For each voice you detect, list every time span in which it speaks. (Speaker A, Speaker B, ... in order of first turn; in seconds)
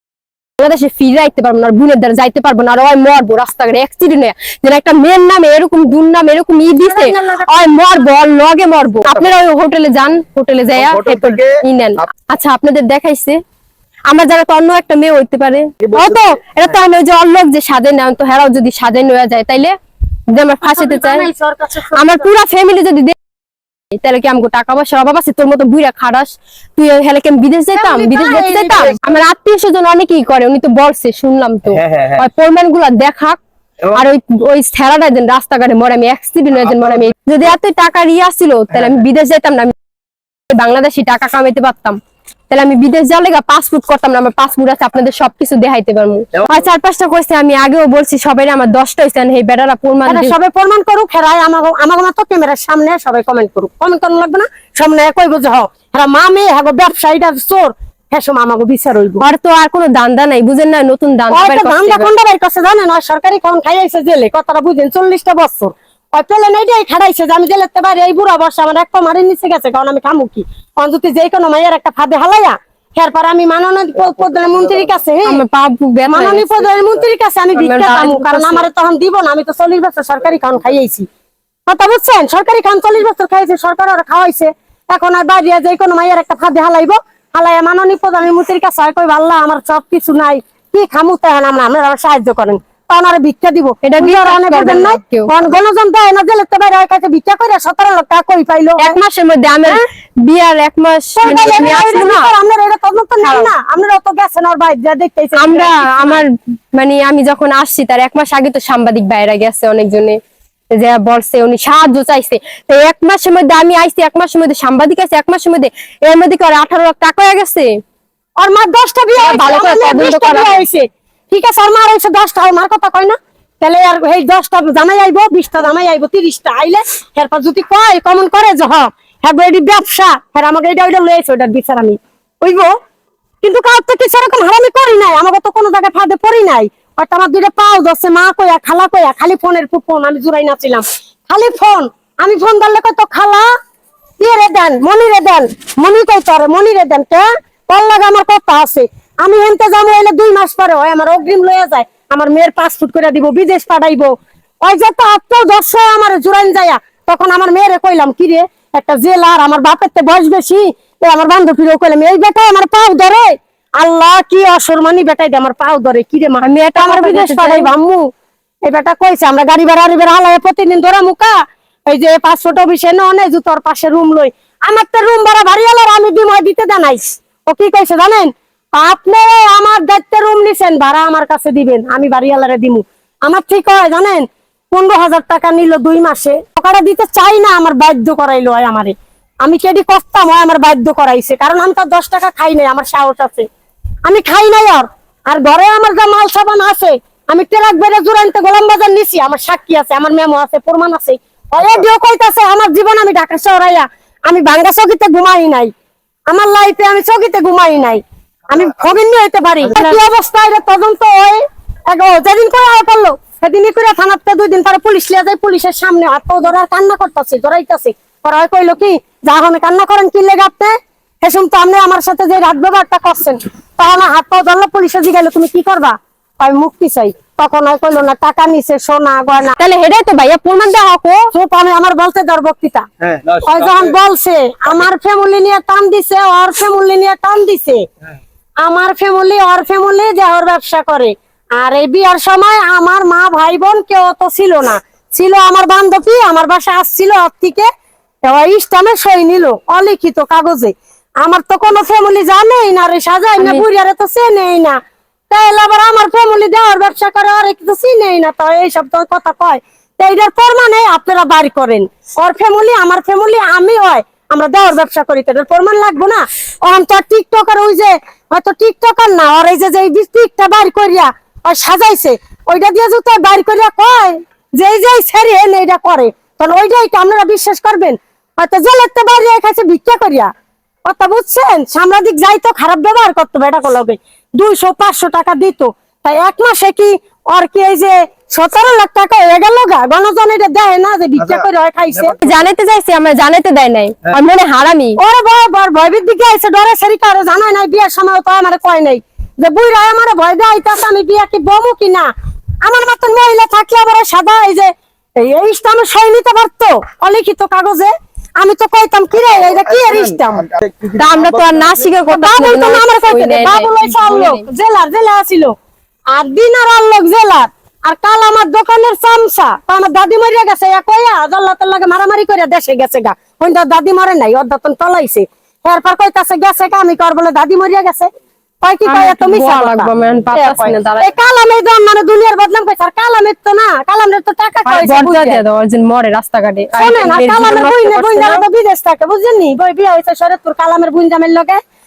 Speaker A: 0.6-13.4, 14.1-19.8, 20.3-21.3, 21.9-23.2, 23.9-39.7, 40.5-42.0, 42.5-50.4, 59.2-62.1, 75.2-76.5, 77.5-78.7, 93.8-95.3, 98.8-102.3, 103.2-103.5, 105.4-110.2, 110.7-117.7, 119.2-120.6, 166.4-167.7, 229.6-231.3, 253.4-253.7, 292.2-295.0, 310.9-314.5, 328.9-331.1, 334.7-338.4
Speaker B: 6.8-7.7, 15.9-16.4, 20.6-22.3, 27.8-29.1, 50.1-59.2, 61.3-75.4, 76.1-81.1, 81.7-99.0, 101.2-106.2, 118.4-132.7, 133.4-143.5, 144.2-168.1, 168.7-171.4, 171.9-193.5, 194.1-205.7, 206.3-229.6, 231.3-232.9, 233.4-237.8, 238.6-247.7, 248.2-254.8, 255.3-280.3, 280.9-292.2, 295.0-302.1, 302.6-310.5, 312.1-315.5, 316.1-328.1, 328.6-335.4, 336.8-341.6
Speaker C: 10.8-11.5, 15.8-16.1, 31.8-32.2, 233.0-233.9, 309.5-311.7